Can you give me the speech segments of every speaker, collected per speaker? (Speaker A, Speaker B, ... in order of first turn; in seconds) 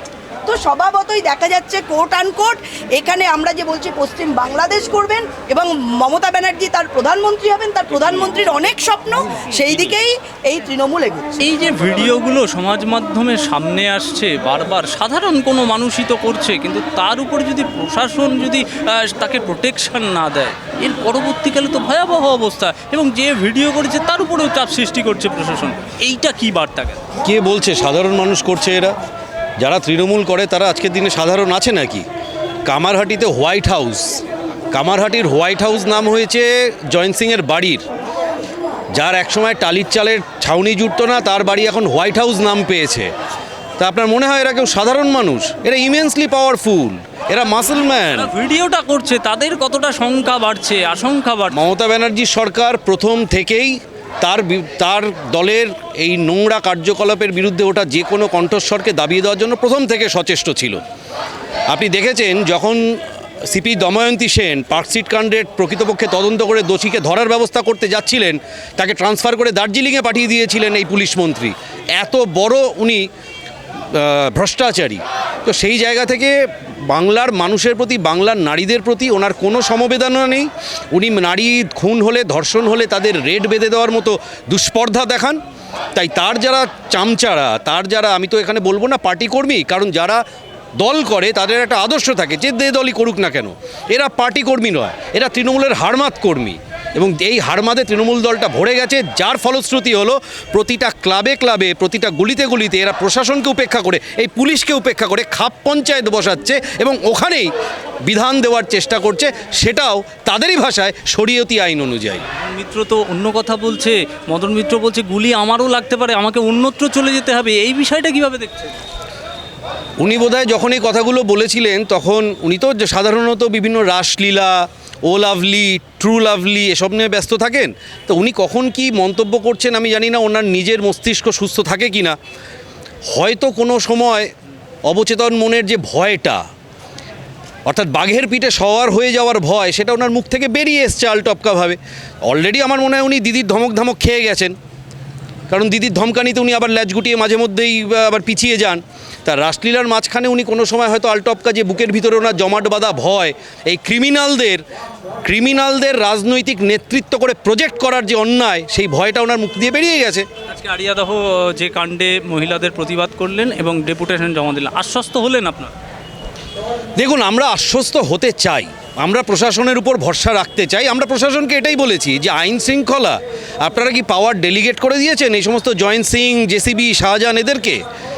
Speaker A: 0.4-11.4
Speaker B: 11.4-27.0, 48.0-51.6, 112.4-118.8, 160.5-165.7
Speaker C: 27.2-28.9, 29.6-32.0, 32.6-34.2, 34.7-37.9, 38.9-43.1, 43.8-48.3, 51.5-60.8, 61.7-63.0, 63.5-73.1, 73.9-76.3, 76.9-85.4, 85.9-90.2, 90.8-107.5, 108.0-112.2, 120.0-132.2, 133.1-134.3, 134.9-136.4, 137.7-144.6, 145.5-154.6, 155.2-160.2, 167.0-177.8